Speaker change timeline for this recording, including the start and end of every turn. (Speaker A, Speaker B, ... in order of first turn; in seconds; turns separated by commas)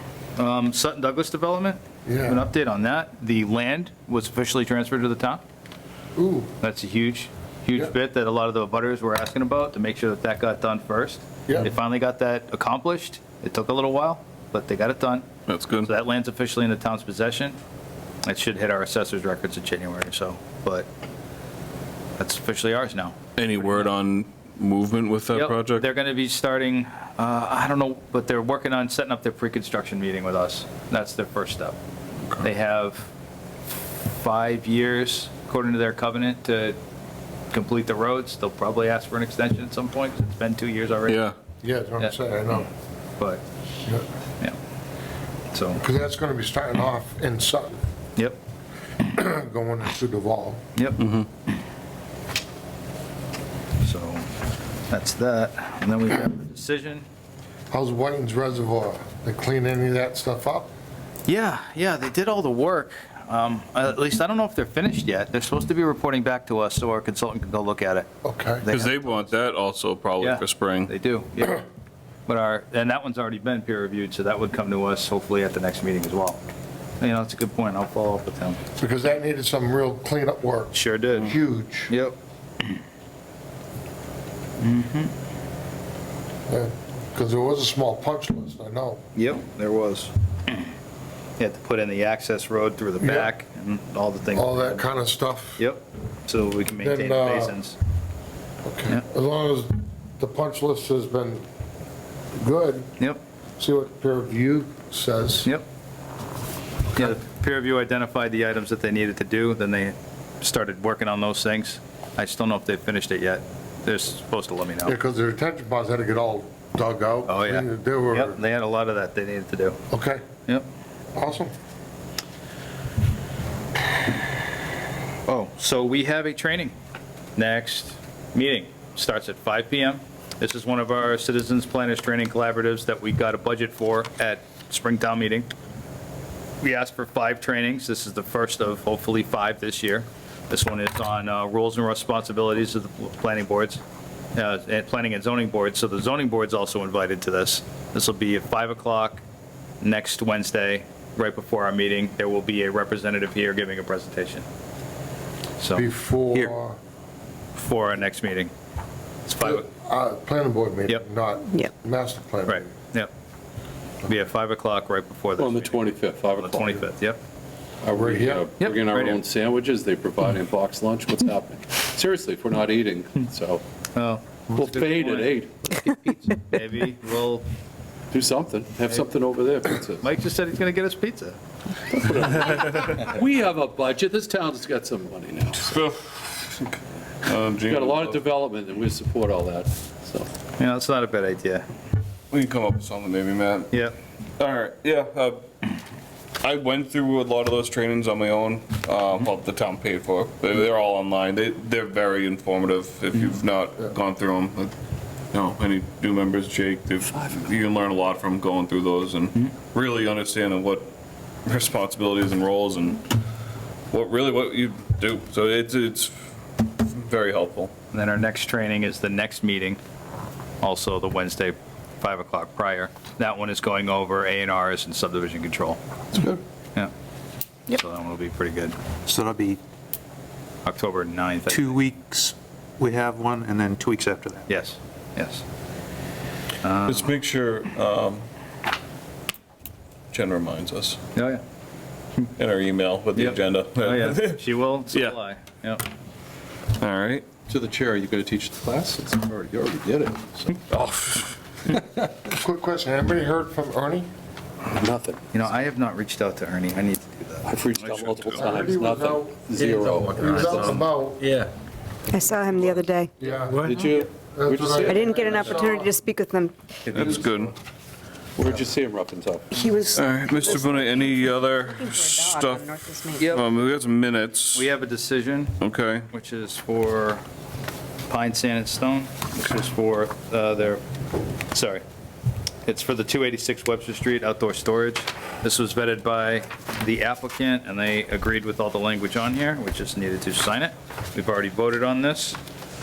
Speaker A: 0.3-5.4, Speaker B: 2.0-2.5, Speaker B: 6.1-6.5, Speaker A: 6.6-15.3, Speaker C: 15.5-15.9, Speaker A: 15.8-17.6, Speaker A: 18.2-20.9, Speaker A: 22.2-23.2, Speaker C: 23.4-25.8, Speaker A: 25.3-31.8, Speaker A: 32.4-33.1, Speaker A: 34.2-36.8, Speaker A: 37.5-41.3, Speaker C: 41.1-41.4, Speaker B: 41.6-42.7, Speaker A: 45.5-45.8, Speaker B: 45.8-47.8, Speaker B: 49.0-50.6, Speaker A: 50.8-51.1, Speaker C: 51.0-51.2, Speaker A: 53.8-54.2, Speaker A: 54.9-57.0, Speaker B: 57.7-60.7, Speaker A: 61.3-68.1, Speaker B: 68.2-68.6, Speaker A: 68.6-69.3, Speaker C: 68.7-70.9, Speaker A: 70.2-71.6, Speaker A: 72.3-76.4, Speaker A: 77.0-78.6, Speaker B: 78.8-81.9, Speaker A: 80.7-81.3, Speaker A: 81.9-82.2, Speaker A: 84.6-85.1, Speaker B: 86.5-89.0, Speaker A: 89.1-90.7, Speaker A: 91.4-94.8, Speaker B: 93.0-93.3, Speaker B: 94.3-95.6, Speaker A: 95.6-97.8, Speaker B: 96.8-97.5, Speaker B: 98.6-101.4, Speaker B: 102.3-102.9, Speaker B: 103.6-105.5, Speaker A: 106.9-115.0, Speaker B: 114.8-118.4, Speaker A: 117.3-119.8, Speaker B: 119.9-120.2, Speaker B: 121.1-121.5, Speaker A: 125.3-126.7, Speaker A: 127.3-135.5, Speaker A: 136.6-143.8, Speaker A: 144.3-149.2, Speaker A: 149.8-154.4, Speaker A: 155.6-155.9, Speaker B: 155.7-156.8, Speaker A: 157.5-158.5, Speaker A: 159.2-159.7, Speaker B: 159.4-162.7, Speaker A: 162.5-163.1, Speaker A: 164.0-167.2, Speaker D: 165.4-166.8, Speaker D: 167.8-173.6, Speaker B: 168.0-168.5, Speaker A: 168.6-169.2, Speaker A: 173.9-177.4, Speaker D: 174.5-175.5, Speaker D: 178.1-180.1, Speaker A: 180.0-181.4, Speaker D: 181.9-185.7, Speaker C: 185.6-188.2, Speaker D: 187.7-190.3, Speaker A: 190.6-191.6, Speaker C: 192.3-193.7, Speaker A: 193.7-193.9, Speaker C: 194.4-195.4, Speaker C: 196.4-204.7, Speaker C: 205.3-210.9, Speaker C: 211.4-213.1, Speaker C: 213.9-217.7, Speaker A: 217.9-219.8, Speaker A: 220.6-225.8, Speaker A: 227.7-228.8, Speaker E: 229.1-229.6, Speaker A: 230.6-231.8, Speaker E: 231.8-234.4, Speaker A: 234.5-235.4, Speaker A: 236.6-237.1, Speaker C: 236.8-238.2, Speaker C: 240.1-241.0, Speaker A: 241.1-241.4, Speaker C: 242.4-244.4, Speaker A: 243.1-245.8, Speaker C: 246.8-247.3, Speaker D: 247.5-250.8, Speaker C: 250.7-251.3, Speaker B: 252.1-254.1, Speaker D: 254.7-255.3, Speaker A: 255.3-257.5, Speaker D: 257.4-260.8, Speaker B: 258.3-261.3, Speaker F: 262.1-263.2, Speaker B: 263.2-265.9, Speaker D: 263.6-265.8, Speaker F: 264.8-266.6, Speaker D: 266.9-267.4, Speaker C: 266.9-267.5, Speaker D: 268.4-269.6, Speaker F: 269.5-273.4, Speaker C: 269.9-274.6, Speaker A: 273.2-273.4, Speaker A: 274.5-275.6, Speaker C: 275.6-276.1, Speaker A: 276.1-277.2, Speaker A: 278.1-280.8, Speaker A: 281.5-281.8, Speaker A: 282.6-292.4